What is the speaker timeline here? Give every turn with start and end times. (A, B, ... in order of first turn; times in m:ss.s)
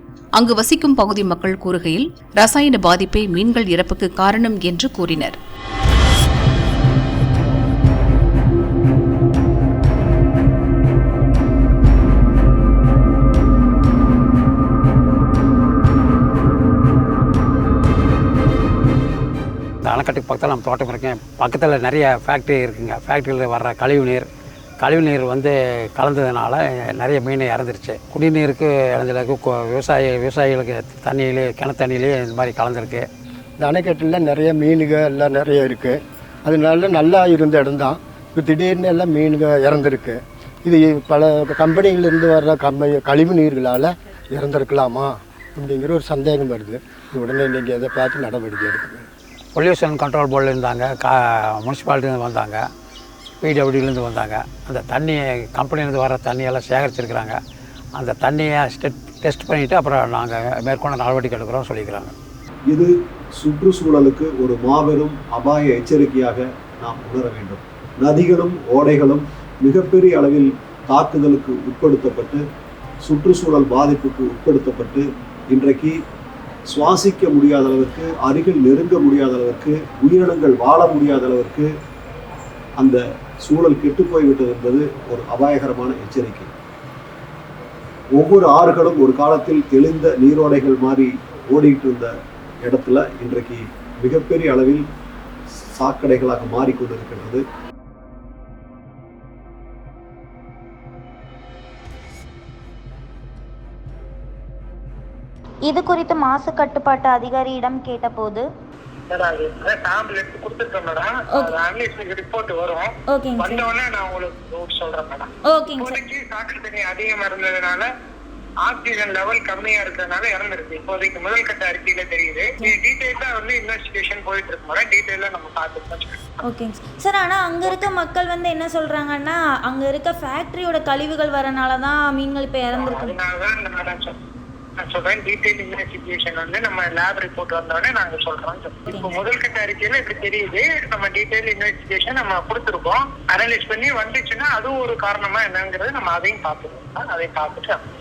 0:00.4-0:05.4 A
0:19.8-0:24.2 B
0:24.8-0:33.1 B
0:33.6-0:49.0 C
0:49.6-0:52.6 B
0:53.4-0:57.4 B
0:58.0-1:02.1 B
1:02.7-1:12.4 D
1:13.0-1:16.0 D
1:16.7-1:21.7 D
1:22.8-1:26.5 D
1:28.1-1:34.9 D
1:35.8-1:37.4 D
1:45.7-1:48.5 E
1:49.1-1:57.9 F
1:53.1-1:53.7 E
1:55.5-1:56.0 E
1:58.6-2:06.2 F
2:06.4-2:13.2 E
2:12.7-2:14.2 F
2:14.8-2:27.8 F
2:18.9-2:19.2 E